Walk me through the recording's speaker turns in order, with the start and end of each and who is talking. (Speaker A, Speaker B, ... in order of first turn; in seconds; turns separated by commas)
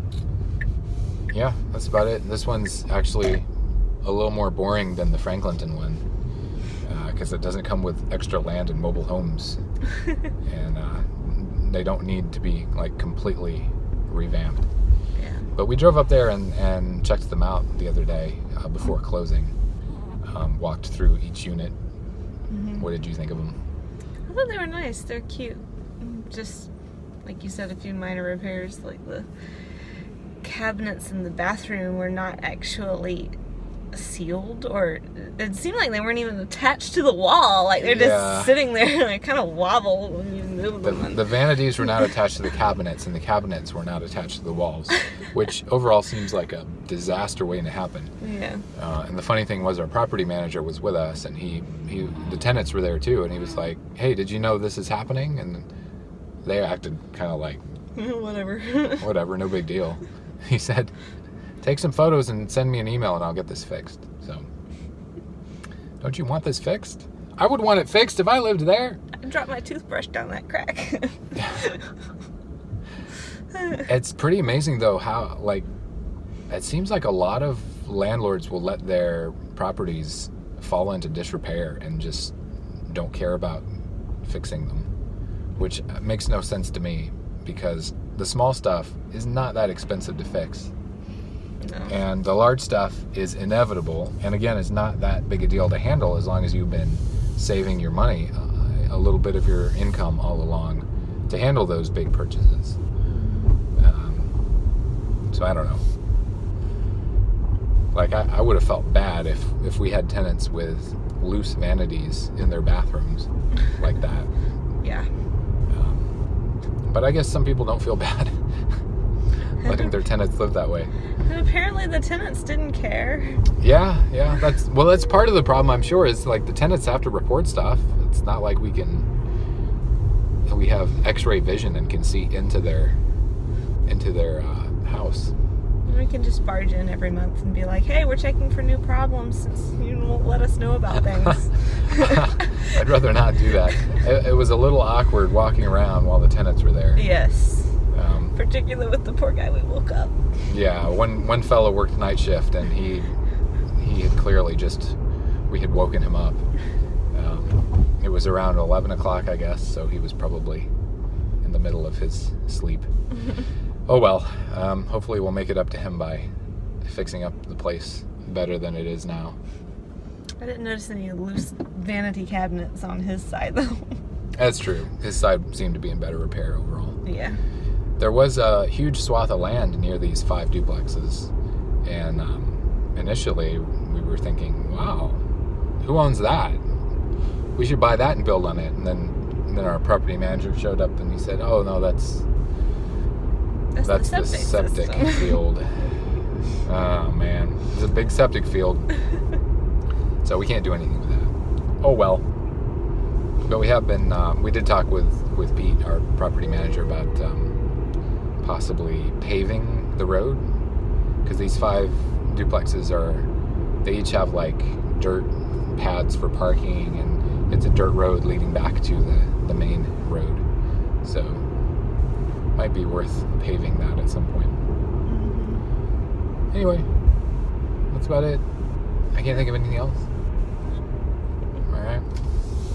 Speaker A: 1.3-3.5, Speaker A: 4.0-6.0, Speaker A: 6.8-9.6, Speaker A: 10.4-14.7, Speaker B: 15.2-15.5, Speaker A: 15.5-19.5, Speaker A: 20.2-21.7, Speaker B: 22.5-22.9, Speaker A: 22.8-23.6, Speaker B: 24.3-26.7, Speaker B: 27.2-29.3, Speaker B: 30.4-33.4, Speaker B: 33.9-41.3, Speaker A: 37.8-38.5, Speaker A: 40.8-48.1, Speaker B: 48.2-48.6, Speaker A: 48.8-55.7, Speaker A: 56.4-57.6, Speaker B: 58.0-59.1, Speaker A: 59.0-60.9, Speaker A: 61.6-64.5, Speaker A: 66.0-69.0, Speaker B: 69.2-71.8, Speaker A: 73.8-75.7, Speaker A: 76.5-82.3, Speaker A: 82.9-83.7, Speaker A: 84.2-84.9, Speaker A: 85.6-90.7, Speaker B: 91.6-91.9, Speaker A: 91.9-102.8, Speaker B: 103.1-103.6, Speaker A: 103.8-104.3, Speaker A: 105.3-105.8, Speaker A: 107.9-114.3, Speaker B: 114.8-115.1, Speaker A: 115.7-116.1, Speaker A: 116.9-118.4, Speaker A: 119.6-120.9, Speaker B: 121.2-123.4, Speaker A: 123.6-129.1, Speaker A: 130.5-133.0, Speaker A: 133.9-135.3, Speaker B: 135.8-142.4, Speaker A: 142.1-147.0, Speaker B: 146.9-147.8, Speaker A: 147.9-148.3, Speaker B: 148.3-150.1, Speaker A: 150.4-153.1, Speaker A: 153.8-155.0, Speaker A: 155.5-156.4, Speaker A: 157.1-160.7, Speaker A: 161.4-162.9, Speaker A: 163.9-166.3, Speaker A: 166.8-169.4, Speaker B: 170.4-174.0, Speaker A: 174.4-177.0, Speaker B: 177.0-177.4, Speaker A: 178.0-181.3, Speaker A: 181.8-185.2, Speaker A: 185.8-186.6, Speaker A: 187.6-192.2, Speaker B: 193.7-195.3, Speaker A: 193.8-195.9, Speaker A: 196.6-198.8, Speaker A: 200.2-202.2, Speaker A: 203.4-207.5, Speaker A: 208.4-210.4, Speaker A: 211.2-213.3, Speaker A: 213.8-220.4, Speaker A: 221.0-221.4, Speaker A: 222.6-224.6, Speaker B: 225.0-225.7, Speaker A: 226.5-226.9, Speaker A: 227.9-228.4, Speaker A: 229.1-230.0, Speaker A: 231.7-232.0